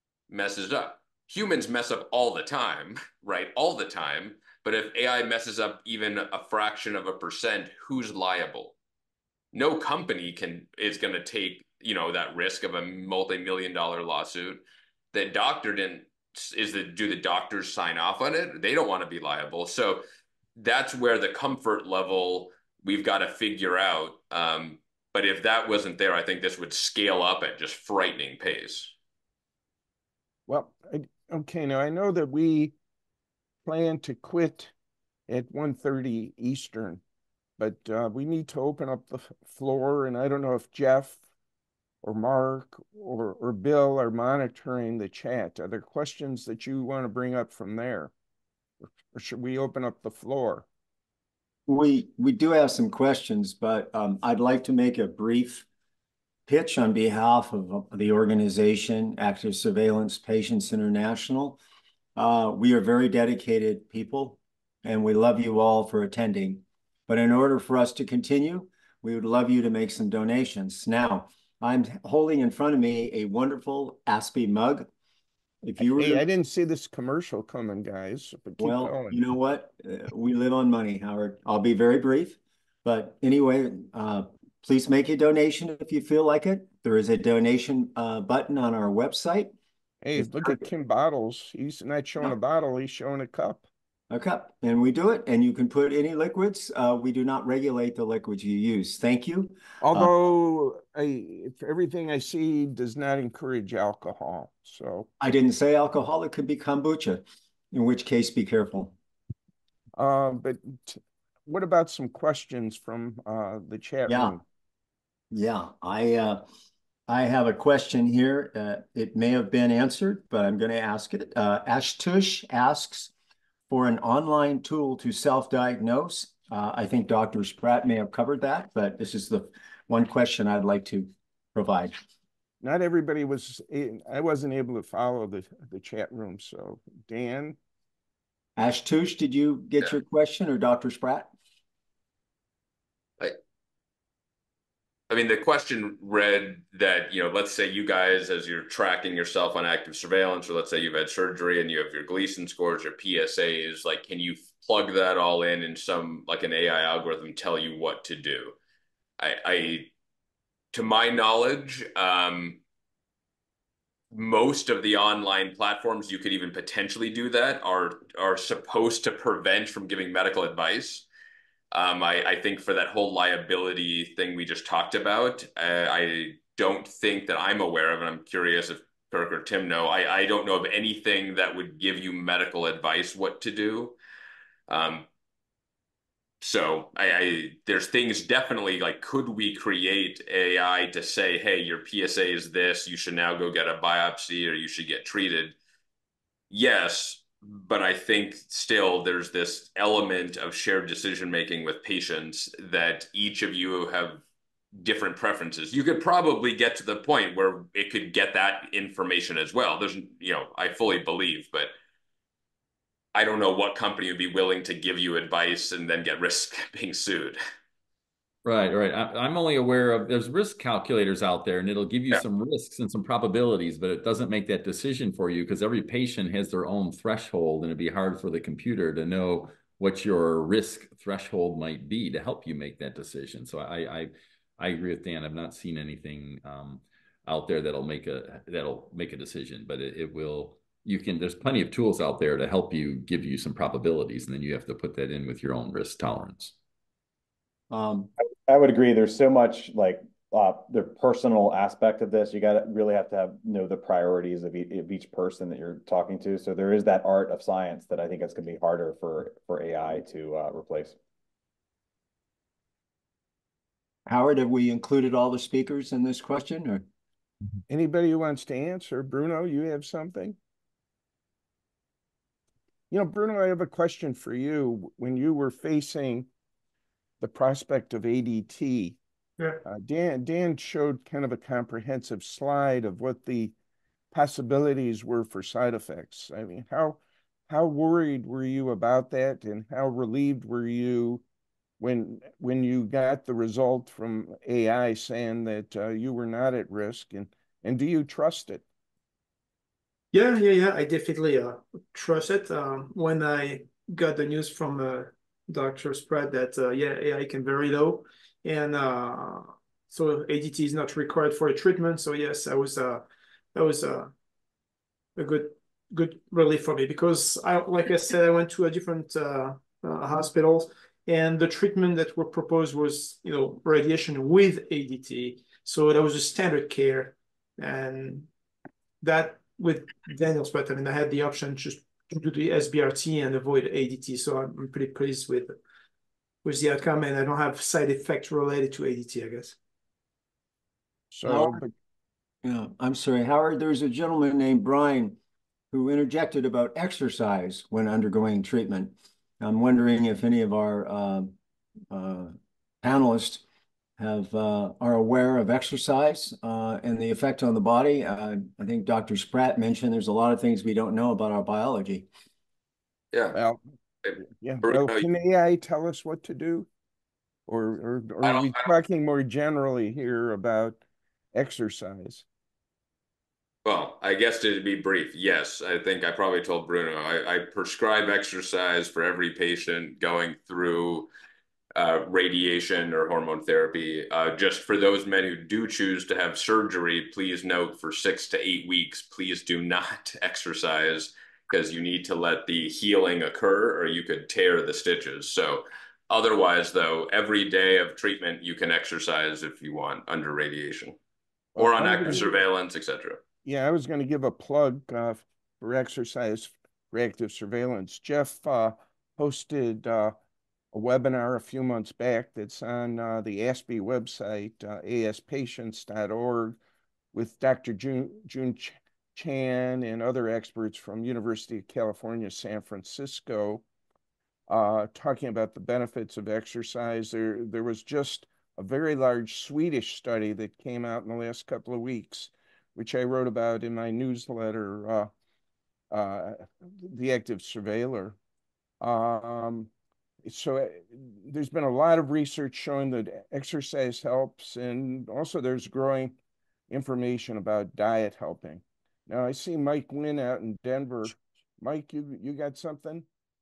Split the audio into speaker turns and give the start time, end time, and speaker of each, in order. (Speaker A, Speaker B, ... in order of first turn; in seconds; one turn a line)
Speaker A: 0.3-8.7
Speaker A: 9.5-20.0
Speaker A: 20.6-28.9
Speaker B: 30.5-32.7
Speaker B: 33.6-34.7
Speaker B: 35.3-37.0
Speaker B: 37.6-41.2
Speaker B: 42.0-48.1
Speaker B: 49.1-50.6
Speaker C: 51.7-55.6
Speaker C: 56.5-61.6
Speaker C: 62.1-74.9
Speaker C: 75.6-76.2
Speaker B: 76.0-79.2
Speaker C: 78.6-89.5
Speaker B: 90.0-93.7
Speaker C: 90.2-90.6
Speaker C: 94.1-100.1
Speaker B: 99.8-105.1
Speaker C: 105.2-108.9
Speaker B: 109.9-114.4
Speaker C: 114.1-114.3
Speaker C: 115.3-116.4
Speaker C: 117.1-123.1
Speaker C: 123.7-132.0
Speaker B: 132.6-137.6
Speaker C: 138.6-141.3
Speaker A: 145.1-158.6
Speaker A: 159.2-159.9
Speaker A: 160.7-162.6
Speaker A: 164.1-171.1
Speaker A: 171.7-183.9
Speaker A: 184.7-185.1
Speaker A: 186.4-195.6
Speaker A: 196.5-204.2
Speaker A: 204.7-211.7
Speaker A: 213.1-217.4
Speaker D: 218.4-246.5
Speaker C: 247.7-248.1
Speaker E: 248.5-261.0
Speaker C: 264.1-266.8
Speaker B: 267.7-270.4
Speaker B: 272.9-276.3
Speaker B: 277.2-279.0
Speaker B: 279.6-283.5
Speaker B: 284.1-291.2
Speaker B: 291.8-298.6
Speaker F: 300.1-314.1
Speaker F: 315.1-328.3
Speaker F: 329.0-335.6
Speaker F: 336.4-339.6
Speaker B: 341.1-341.7
Speaker C: 341.2-341.6
Speaker C: 342.4-345.2
Speaker C: 345.7-351.3
Speaker C: 351.9-353.4
Speaker C: 354.0-362.1
Speaker A: 363.1-363.4
Speaker B: 363.3-363.6
Speaker A: 364.0-365.1
Speaker B: 364.4-366.7
Speaker B: 367.5-370.8
Speaker A: 368.2-368.7
Speaker B: 371.3-372.2
Speaker A: 373.6-381.1
Speaker A: 381.7-401.0
Speaker B: 401.6-402.4
Speaker A: 401.6-403.2
Speaker B: 403.4-410.1
Speaker B: 410.7-416.6
Speaker B: 417.1-423.6
Speaker B: 424.5-435.1
Speaker B: 435.9-438.2
Speaker B: 438.8-439.7
Speaker B: 440.2-446.1
Speaker B: 446.7-453.1